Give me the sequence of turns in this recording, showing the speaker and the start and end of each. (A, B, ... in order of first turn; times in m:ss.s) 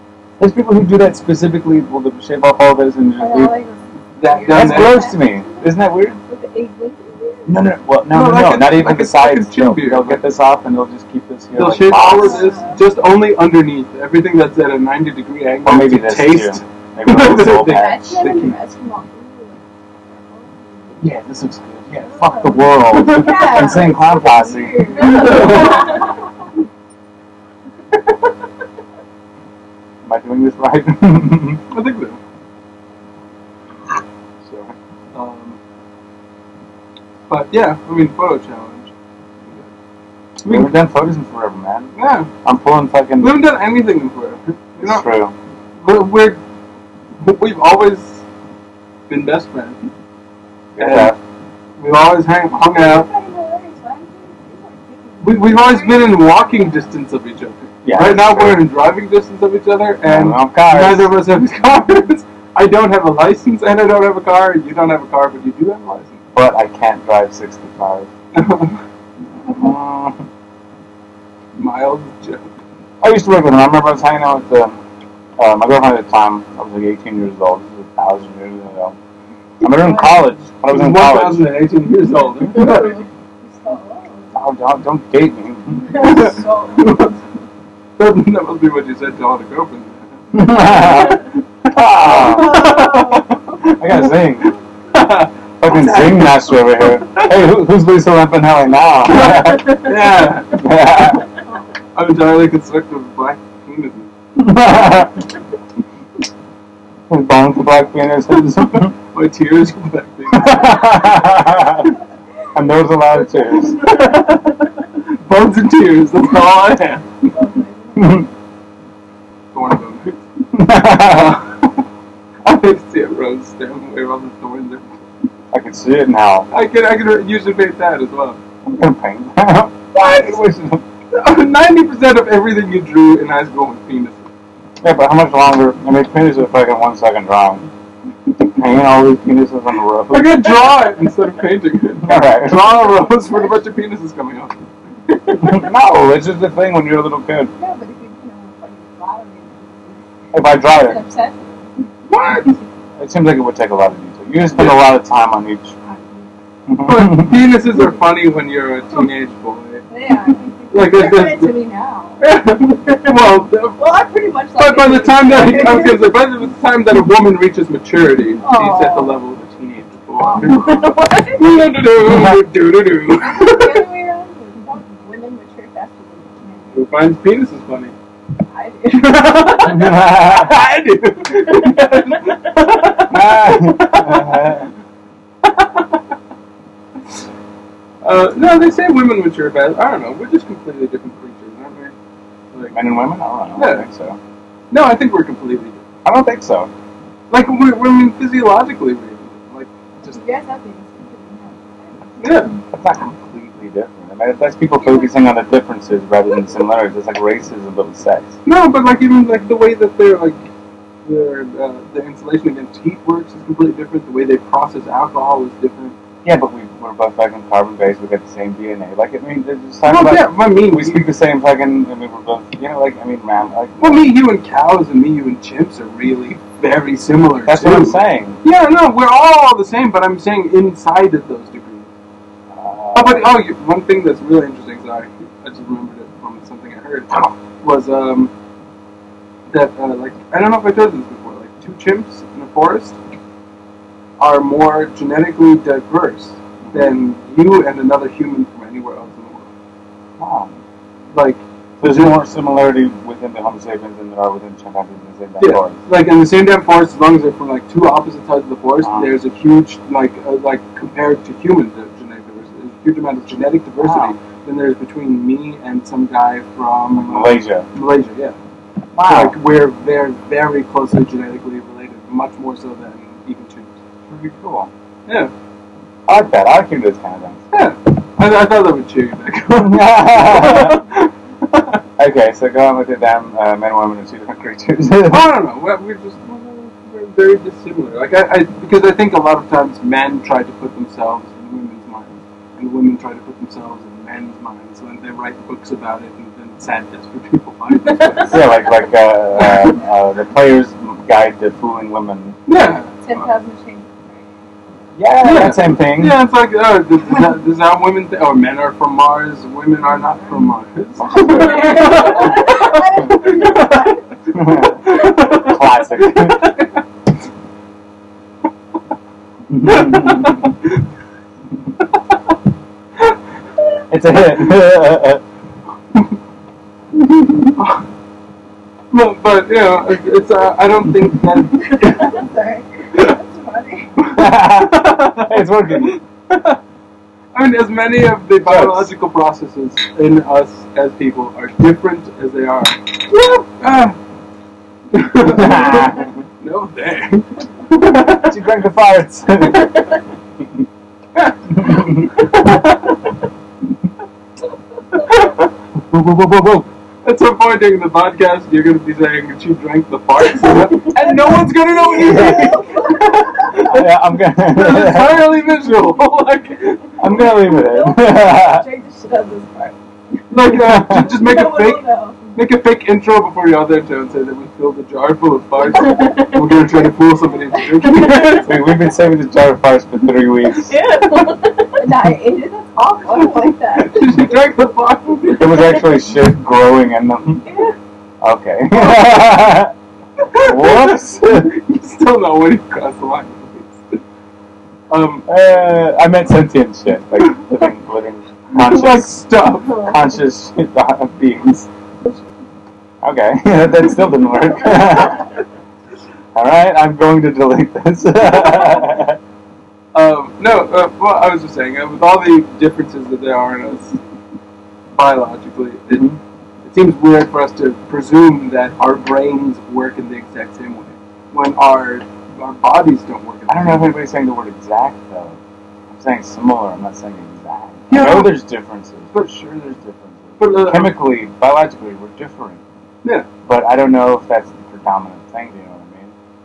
0:00.4-0:03.6 A
0:03.2-0:07.6 B
0:04.2-0:05.2 C
0:04.5-0:06.2 A
0:07.5-0:12.5 A
0:08.1-0:10.2 C
0:11.5-0:18.6 C
0:12.0-0:12.8 B
0:15.6-0:18.1 A
0:17.7-0:21.1 B
0:21.0-0:25.6 A
0:21.9-0:26.2 B
0:22.9-0:23.8 C
0:24.9-0:26.1 C
0:30.0-0:31.6 A
0:31.7-0:32.2 C
0:34.4-0:34.7 A
0:35.1-0:35.6 C
0:37.3-0:38.9 C
0:40.4-0:40.7 C
0:40.5-0:43.4 A
0:42.0-0:42.3 C
0:43.2-0:45.1 C
0:44.8-0:45.4 A
0:45.8-0:46.4 C
0:47.2-0:48.2 C
0:49.1-0:49.8 C
0:50.8-0:51.2 A
0:50.8-0:51.2 C
0:51.8-0:53.1 C
0:52.7-0:56.9 B
0:55.2-1:06.2 C
0:57.8-0:58.6 A
1:00.0-1:01.1 A
1:06.3-1:08.1 A
1:08.3-1:08.8 C
1:09.4-1:10.2 A
1:11.6-1:12.6 C
1:13.0-1:14.8 A
1:15.4-1:19.0 A
1:19.6-1:21.5 A
1:20.6-1:23.0 C
1:22.5-1:24.4 B
1:24.3-1:26.3 A
1:25.8-1:27.2 B
1:25.9-1:27.2 C
1:28.0-1:37.5 C
1:30.3-1:32.9 A
1:32.1-1:33.7 B
1:33.7-1:34.5 A
1:35.6-1:39.9 A
1:39.1-1:40.7 C
1:39.3-1:39.8 B
1:40.5-1:41.3 A
1:42.0-1:44.1 C
1:44.4-1:45.3 A
1:47.1-1:48.9 A
1:48.8-1:51.2 C
1:50.3-1:51.9 A
1:52.5-1:53.8 A
1:53.7-1:57.4 C
1:57.2-1:58.3 B
1:58.0-1:58.3 A
1:59.5-2:01.8 C
2:00.5-2:01.4 A
2:02.4-2:04.9 C
2:05.5-2:06.5 A
2:06.5-2:08.4 C
2:08.6-2:10.8 A
2:11.1-2:14.3 C
2:14.8-2:17.7 A
2:18.4-2:20.5 A
2:20.1-2:25.6 C
2:22.0-2:22.9 A
2:25.4-2:27.5 A
2:27.6-2:31.7 B
2:30.3-2:31.0 A
2:32.1-2:32.6 C
2:33.0-2:35.7 A
2:34.6-2:34.9 C
2:35.8-2:36.4 B
2:36.7-2:37.5 A
2:36.8-2:39.9 C
2:39.9-2:43.1 B
2:40.7-2:41.6 C
2:42.2-2:43.8 C
2:43.8-2:46.2 B
2:44.6-2:53.9 C
2:48.4-2:49.2 B
2:50.2-2:51.6 B
2:52.1-2:52.4 A
2:53.2-2:56.9 B
2:56.7-2:58.0 C
2:58.5-3:00.2 B
2:58.9-3:04.6 C
2:59.6-3:00.6 A
3:03.1-3:04.7 A
3:05.4-3:06.0 C
3:08.0-3:11.9 C
3:12.7-3:14.2 A
3:13.6-3:13.9 C
3:14.7-3:15.8 C
3:16.0-3:16.7 A
3:17.3-3:20.3 C
3:20.1-3:22.6 B
3:22.2-3:22.6 C
3:22.7-3:28.4 A
3:24.8-3:25.2 B
3:28.4-3:30.5 C
3:31.0-3:36.0 C
3:36.2-3:44.1 A
3:39.8-3:41.1 C
3:43.8-3:51.9 C
3:47.4-3:48.4 A
3:52.5-3:53.4 A
3:52.9-3:58.3 C
3:59.5-4:03.0 C
4:04.2-4:09.5 C
4:06.6-4:06.9 A
4:10.2-4:10.6 A
4:11.1-4:12.1 C
4:11.8-4:15.8 A
4:15.4-4:28.4 C
4:18.8-4:19.1 A
4:23.8-4:24.2 A
4:26.9-4:27.7 A
4:29.0-4:29.4 A
4:29.0-4:33.8 C
4:34.1-4:34.7 A
4:35.1-4:35.3 C
4:36.1-4:37.4 A
4:37.5-4:41.8 C
4:39.6-4:40.8 A
4:42.0-4:45.4 A
4:45.1-4:58.5 C
4:58.3-5:02.4 A
4:59.4-4:59.7 C
5:02.5-5:03.3 C
5:03.0-5:04.5 B
5:05.0-5:06.2 A
5:05.2-5:16.8 C
5:11.0-5:11.9 A
5:11.0-5:15.2 B
5:14.3-5:16.5 A
5:19.5-5:20.5 A
5:19.6-5:20.8 C
5:23.9-5:25.2 A
5:27.5-5:27.8 C
5:28.9-5:32.2 C
5:31.6-5:34.0 B
5:34.0-5:36.6 C
5:34.2-5:36.0 A
5:37.3-5:44.0 C
5:38.4-5:38.9 A
5:44.9-5:48.4 C
5:45.2-5:46.2 A
5:48.1-5:49.8 A
5:51.2-5:53.0 C
5:51.6-5:52.1 A
5:54.9-5:55.5 C
5:55.9-5:56.7 A
5:57.0-6:07.6 C
6:00.4-6:03.7 B
6:02.0-6:02.7 A
6:03.5-6:05.4 A
6:07.0-6:08.7 A
6:07.0-6:12.3 B
6:10.3-6:18.6 C
6:10.4-6:11.2 A
6:15.7-6:16.7 B
6:17.7-6:18.4 B
6:18.4-6:20.8 A
6:20.6-6:24.3 B
6:23.7-6:25.7 C
6:25.4-6:27.5 A
6:27.5-6:27.8 B
6:28.2-6:29.7 A
6:28.7-6:29.2 C
6:30.2-6:34.0 C
6:30.4-6:31.5 A
6:34.9-6:35.3 C
6:35.3-6:41.7 A
6:38.5-6:39.8 C
6:39.6-6:40.1 B
6:43.0-6:45.3 A
6:44.7-6:45.2 B
6:46.3-6:49.2 A
6:49.9-6:54.0 C
6:55.0-6:56.1 C
6:55.9-6:56.2 A
6:56.6-7:04.0 C
7:03.5-7:05.4 A
7:05.9-7:12.6 A
7:07.9-7:08.4 C
7:10.4-7:11.0 C
7:13.4-7:16.1 A